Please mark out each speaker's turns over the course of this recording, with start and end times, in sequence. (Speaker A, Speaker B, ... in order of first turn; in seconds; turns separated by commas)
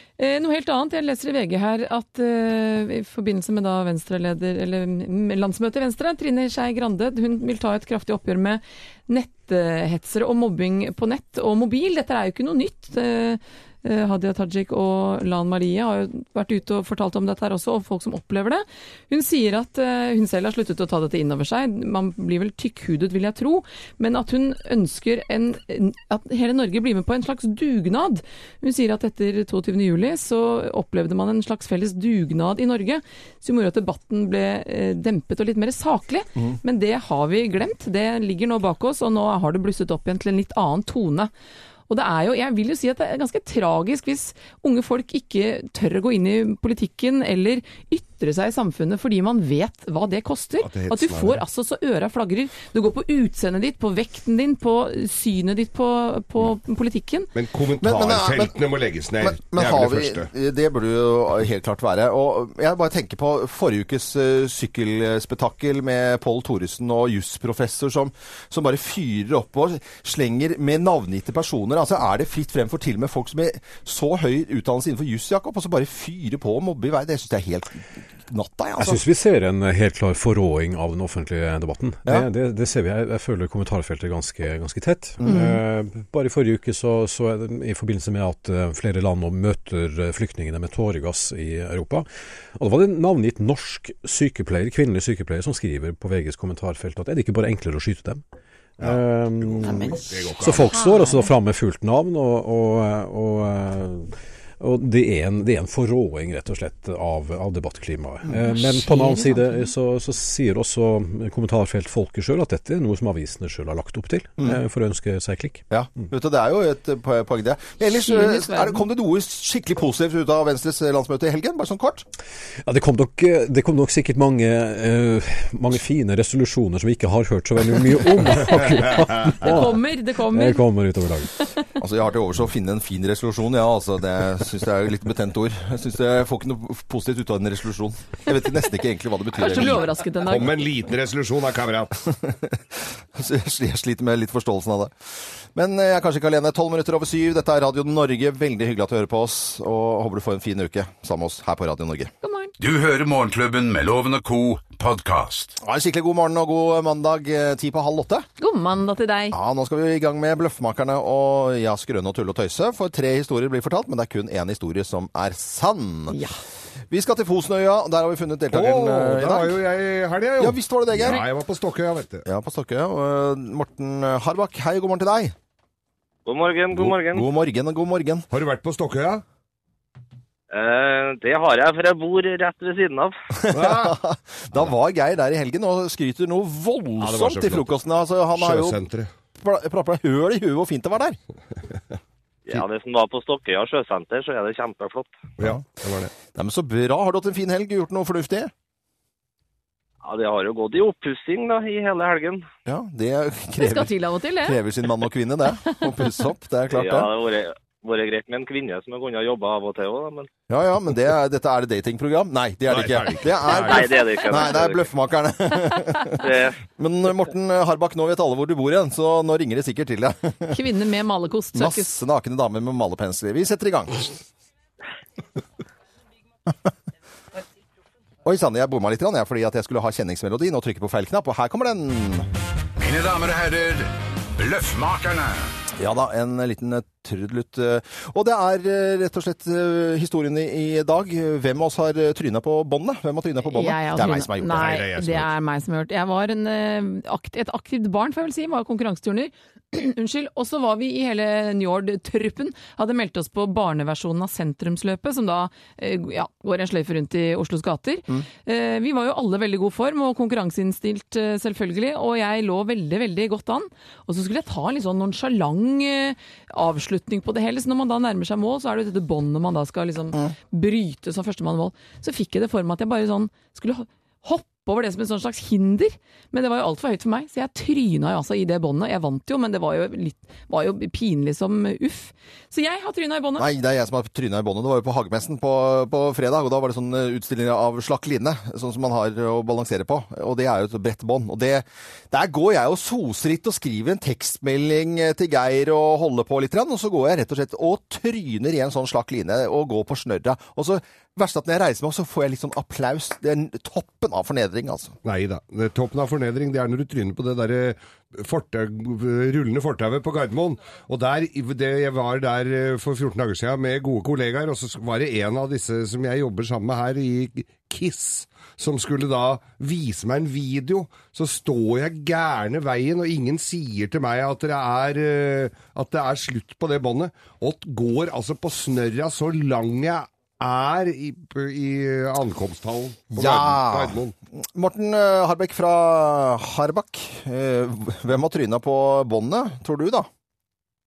Speaker A: 0.2-41.3, Speaker A: 41.9-57.3, Speaker B: 50.6-51.4, Speaker B: 57.3-60.3, Speaker C: 57.8-58.5, Speaker C: 59.2-79.0, Speaker D: 78.8-98.2, Speaker C: 85.2-85.5, Speaker B: 98.8-100.8, Speaker D: 98.8-115.6, Speaker A: 99.6-100.0, Speaker A: 100.6-101.2, Speaker A: 108.5-109.6, Speaker C: 115.7-122.0, Speaker A: 117.9-118.8, Speaker D: 122.6-131.5, Speaker B: 128.9-129.3, Speaker A: 129.4-130.6, Speaker C: 131.8-139.9, Speaker A: 139.3-140.6, Speaker B: 139.4-141.9, Speaker C: 142.1-152.1, Speaker A: 152.2-152.5, Speaker E: 152.6-155.6, Speaker C: 155.6-158.2, Speaker A: 158.4-159.4, Speaker C: 159.3-166.2, Speaker A: 166.1-166.4, Speaker C: 166.9-169.6, Speaker B: 168.5-172.2, Speaker C: 170.4-171.3, Speaker C: 172.2-175.3, Speaker F: 176.2-177.3, Speaker C: 176.7-178.3, Speaker B: 178.3-179.2, Speaker F: 180.5-183.2, Speaker C: 183.4-188.8, Speaker B: 183.5-183.9, Speaker B: 187.0-187.7, Speaker B: 188.3-189.1, Speaker C: 189.4-191.2, Speaker F: 192.4-195.2, Speaker B: 195.4-196.1, Speaker C: 196.2-198.5, Speaker F: 200.0-202.4, Speaker C: 202.7-207.1, Speaker A: 203.6-204.6, Speaker F: 206.7-210.3, Speaker C: 210.5-220.6, Speaker B: 212.7-214.0, Speaker F: 213.5-214.9, Speaker F: 216.2-216.6, Speaker A: 220.5-221.9, Speaker C: 221.5-224.1, Speaker C: 228.2-232.3, Speaker E: 232.8-235.5, Speaker C: 235.8-244.8, Speaker A: 243.5-283.5, Speaker B: 244.5-245.3, Speaker C: 283.4-305.0, Speaker B: 305.0-334.1, Speaker C: 333.1-340.1